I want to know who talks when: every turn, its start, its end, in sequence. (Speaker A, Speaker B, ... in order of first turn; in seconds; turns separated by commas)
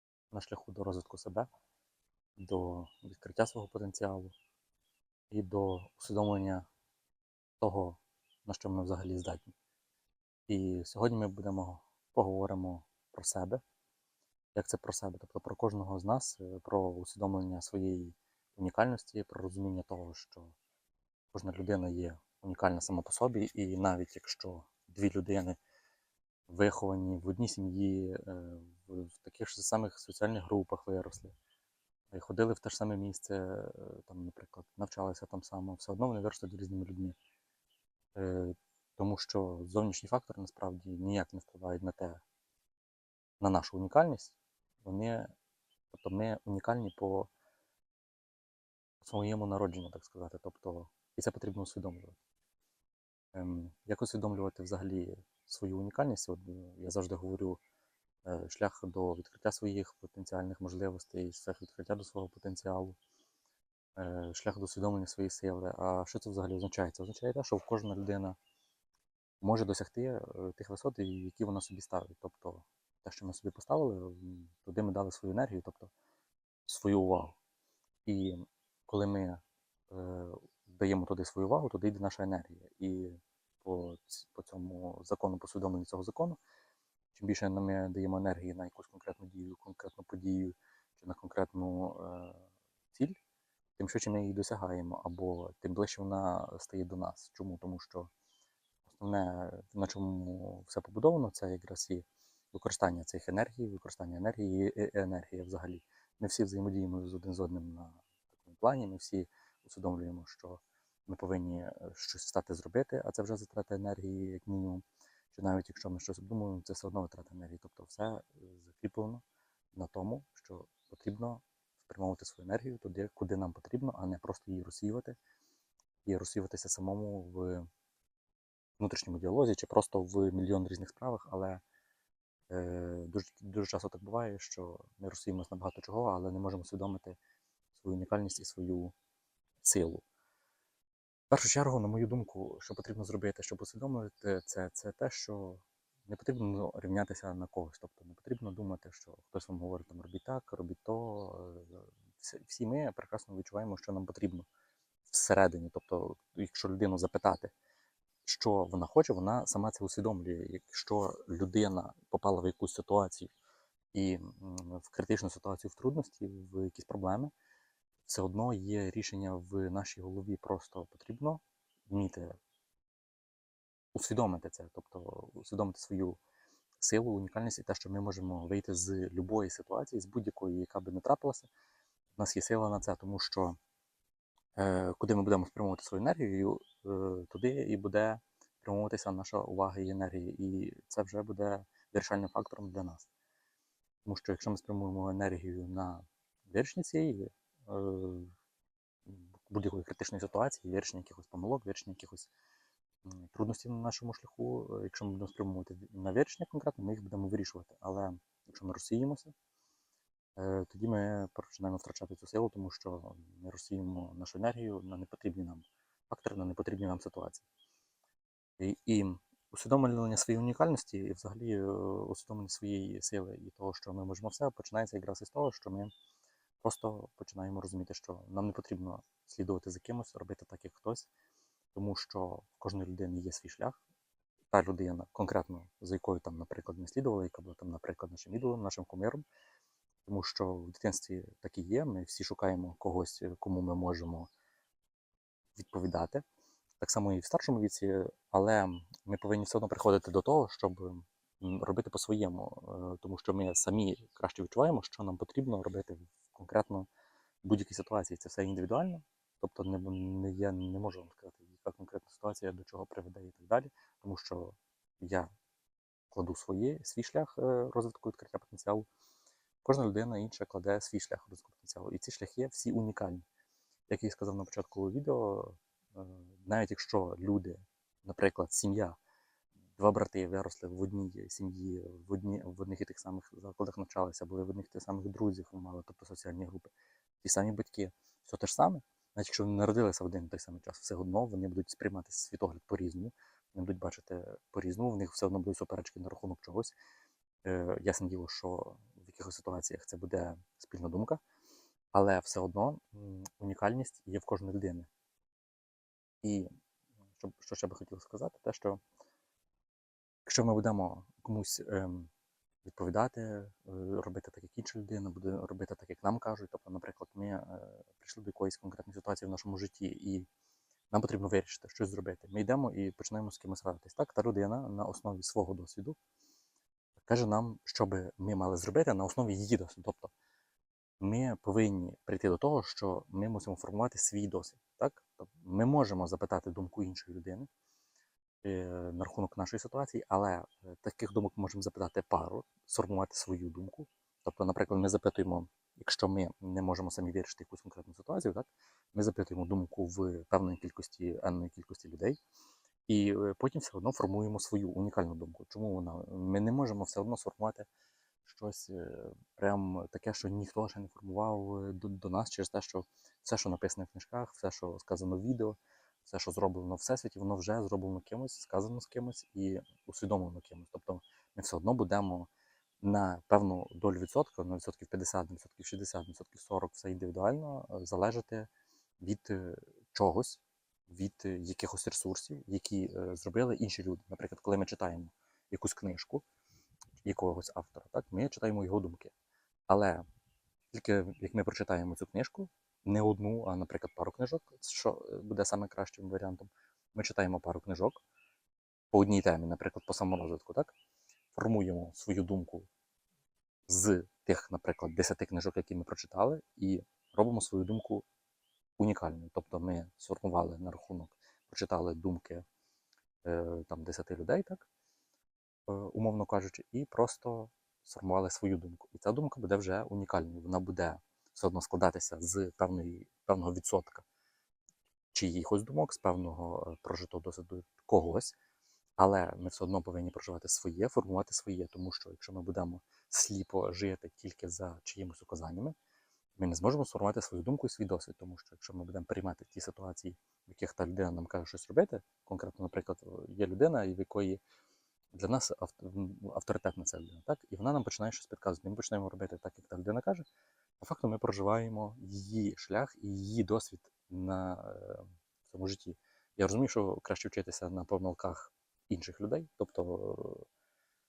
Speaker A: 0.3-1.5, Speaker A: 2.4-4.3, Speaker A: 5.3-6.7, Speaker A: 7.6-9.5, Speaker A: 10.5-13.6, Speaker A: 14.6-20.6, Speaker A: 21.3-25.6, Speaker A: 26.5-31.3, Speaker A: 32.1-37.2, Speaker A: 38.1-42.2, Speaker A: 43.4-45.3, Speaker A: 45.9-47.3, Speaker A: 49.0-52.2, Speaker A: 53.3-57.6, Speaker A: 58.2-63.0, Speaker A: 64.0-68.4, Speaker A: 69.4-75.9, Speaker A: 76.7-77.3, Speaker A: 78.0-86.4, Speaker A: 87.1-93.2, Speaker A: 93.8-98.1, Speaker A: 98.9-125.2, Speaker A: 126.0-127.7, Speaker A: 128.8-131.6, Speaker A: 132.5-137.2, Speaker A: 137.7-138.9, Speaker A: 139.6-140.1, Speaker A: 141.3-154.5, Speaker A: 155.1-157.5, Speaker A: 158.2-163.3, Speaker A: 163.9-167.3, Speaker A: 168.1-172.4, Speaker A: 173.9-176.2, Speaker A: 176.8-181.5, Speaker A: 182.2-183.6, Speaker A: 184.6-193.1, Speaker A: 194.1-198.3, Speaker A: 199.1-202.3, Speaker A: 203.1-209.3, Speaker A: 210.4-217.4, Speaker A: 218.6-225.9, Speaker A: 226.6-231.1, Speaker A: 231.8-233.8, Speaker A: 234.5-239.2, Speaker A: 240.1-244.3, Speaker A: 245.6-246.2, Speaker A: 246.8-256.9, Speaker A: 257.4-265.3, Speaker A: 266.1-268.9, Speaker A: 269.6-273.2, Speaker A: 273.9-279.0, Speaker A: 279.8-286.7, Speaker A: 287.2-296.8, Speaker A: 297.4-301.2, Speaker A: 301.9-304.9, Speaker A: 306.2-306.5, Speaker A: 307.2-308.8, Speaker A: 310.2-312.1, Speaker A: 312.6-320.3, Speaker A: 320.9-326.0, Speaker A: 327.1-330.1, Speaker A: 331.0-337.5, Speaker A: 338.4-352.2, Speaker A: 352.9-357.7, Speaker A: 358.2-372.3, Speaker A: 372.8-378.5, Speaker A: 379.0-386.2, Speaker A: 387.0-389.1, Speaker A: 389.7-390.0, Speaker A: 390.7-398.0, Speaker A: 398.9-400.7, Speaker A: 401.3-402.7, Speaker A: 403.7-408.0, Speaker A: 408.8-412.4, Speaker A: 413.2-414.6, Speaker A: 415.7-424.0, Speaker A: 425.1-428.3, Speaker A: 429.0-435.8, Speaker A: 436.4-444.4, Speaker A: 445.1-450.2, Speaker A: 450.8-460.4